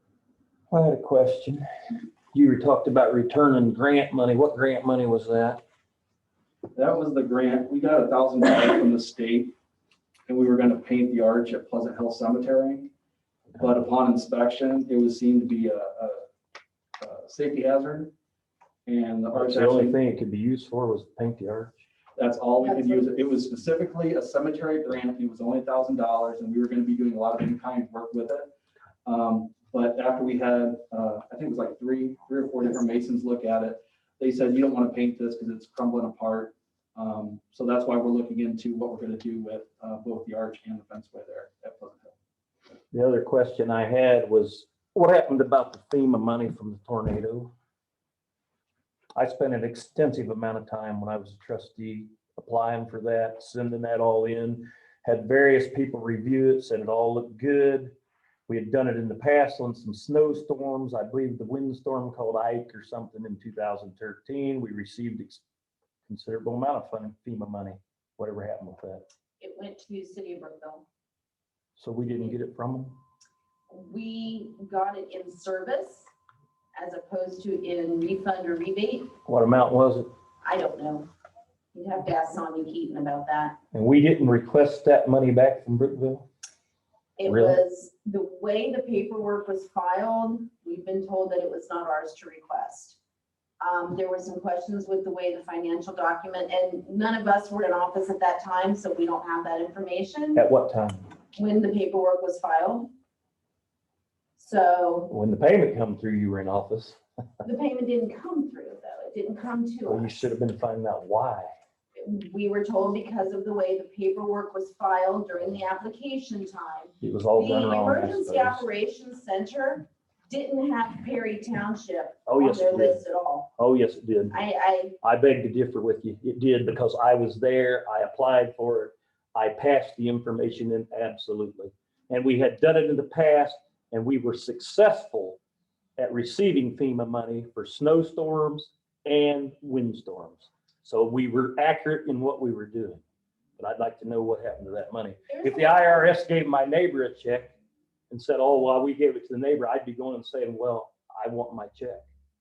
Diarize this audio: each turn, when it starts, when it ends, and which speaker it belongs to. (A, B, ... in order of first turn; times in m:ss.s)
0:00.7-0:01.6 A
0:02.3-0:05.6 A
0:06.7-0:09.5 B
0:10.3-0:12.9 B
0:13.6-0:16.2 B
0:17.0-0:18.1 B
0:18.8-0:20.0 B
0:19.3-0:21.7 A
0:22.2-0:28.5 B
0:22.6-0:23.0 C
0:29.0-0:42.1 B
0:42.9-0:47.5 A
0:49.2-0:57.9 A
0:58.5-1:05.4 A
1:06.0-1:09.0 A
1:09.4-1:10.8 C
1:11.8-1:13.0 A
1:12.1-1:12.3 C
1:13.7-1:16.1 C
1:16.8-1:19.1 C
1:19.2-1:20.1 A
1:20.4-1:21.1 C
1:21.7-1:23.6 C
1:23.7-1:26.2 A
1:27.2-1:33.0 C
1:27.2-1:27.6 A
1:33.6-1:40.4 C
1:40.4-1:41.0 A
1:41.3-1:42.9 C
1:44.4-1:45.1 C
1:45.1-1:47.0 A
1:47.4-1:50.2 C
1:49.8-1:51.5 A
1:52.0-2:03.5 C
1:57.0-1:58.6 A
2:02.3-2:03.0 A
2:03.6-2:04.4 A
2:04.3-2:05.0 C
2:05.0-2:15.4 A
2:16.0-2:23.0 A
2:23.6-2:27.5 A
2:25.3-2:26.1 C
2:28.1-2:32.0 A